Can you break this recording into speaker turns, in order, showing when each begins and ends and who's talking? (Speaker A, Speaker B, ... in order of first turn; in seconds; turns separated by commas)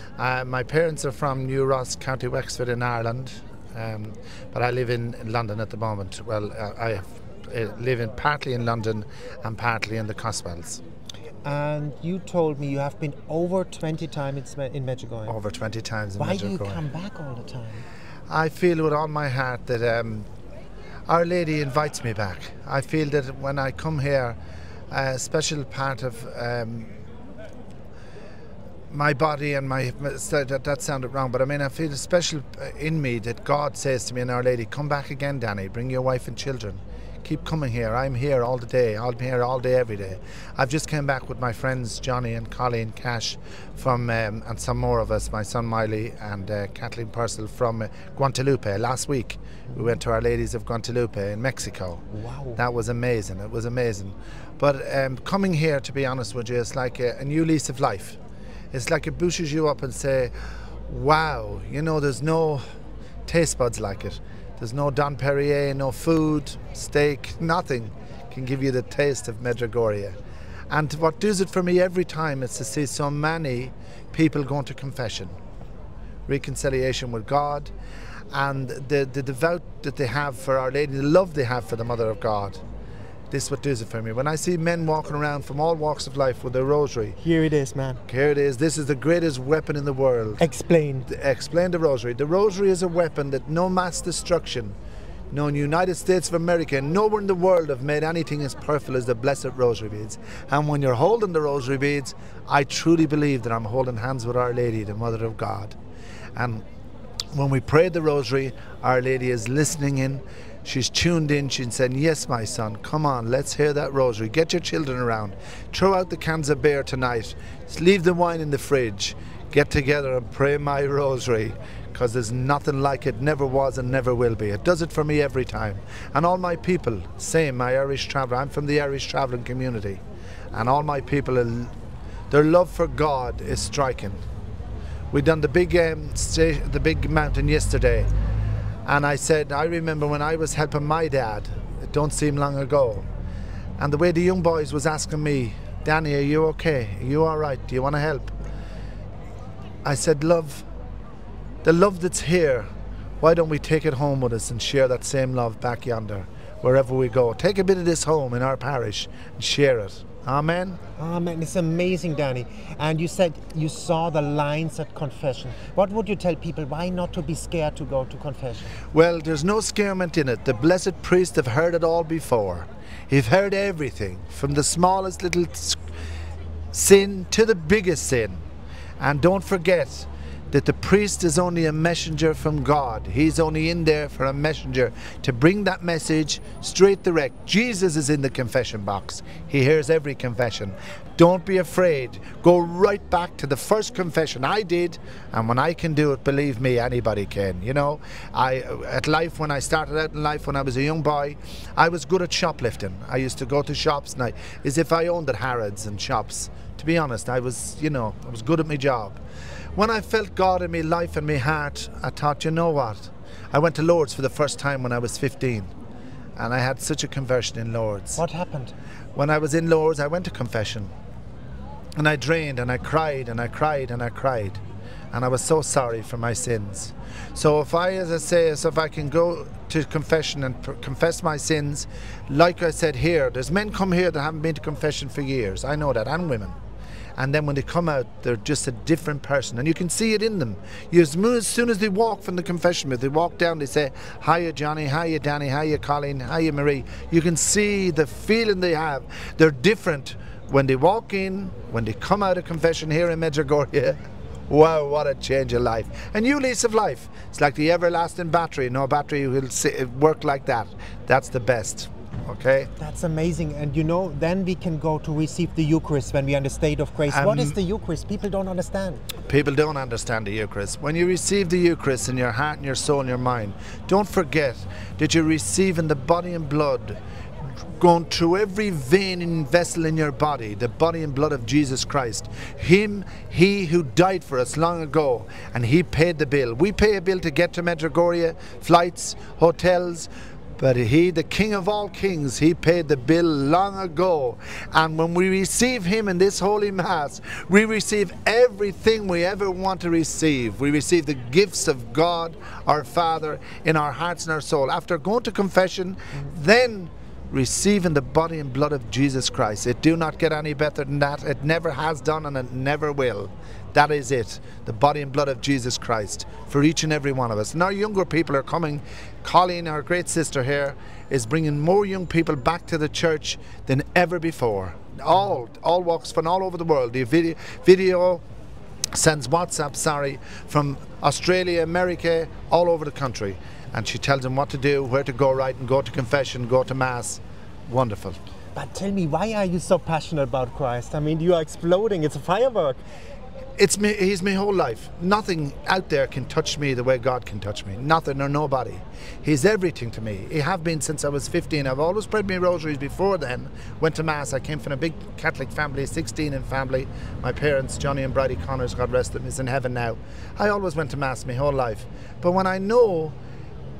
Speaker A: 0.2-10.8, Speaker B: 11.4-15.4, Speaker A: 15.3-16.9, Speaker B: 16.2-17.8, Speaker A: 18.3-20.3, Speaker A: 21.1-24.4, Speaker A: 24.9-26.9, Speaker A: 28.9-52.0, Speaker B: 52.1-52.6, Speaker A: 52.6-58.2, Speaker A: 58.7-60.3, Speaker A: 60.9-62.6, Speaker A: 63.3-70.2, Speaker A: 70.7-75.3, Speaker A: 76.3-77.7, Speaker A: 78.3-82.6, Speaker A: 83.3-87.2, Speaker B: 87.2-88.0, Speaker A: 88.1-90.4, Speaker B: 90.4-91.1, Speaker A: 91.1-94.8, Speaker A: 95.3-105.8, Speaker A: 106.4-106.6, Speaker A: 107.3-130.0, Speaker A: 130.5-131.7, Speaker A: 132.3-134.2, Speaker A: 135.1-138.1, Speaker A: 138.9-143.1, Speaker A: 143.8-148.3, Speaker A: 149.8-150.7, Speaker A: 151.6-152.7, Speaker A: 153.2-160.8, Speaker B: 161.0-168.8, Speaker A: 168.9-175.8, Speaker A: 176.7-178.4, Speaker A: 179.0-209.2, Speaker A: 209.8-215.7, Speaker A: 216.4-218.2, Speaker B: 218.2-218.8, Speaker A: 219.2-220.9, Speaker A: 222.0-224.6, Speaker A: 225.1-236.5, Speaker A: 237.2-254.0, Speaker A: 254.5-262.7, Speaker B: 262.8-269.0, Speaker A: 267.1-267.6, Speaker A: 269.3-277.0, Speaker A: 277.8-328.2, Speaker A: 328.9-338.2, Speaker B: 338.6-342.8, Speaker A: 343.6-363.1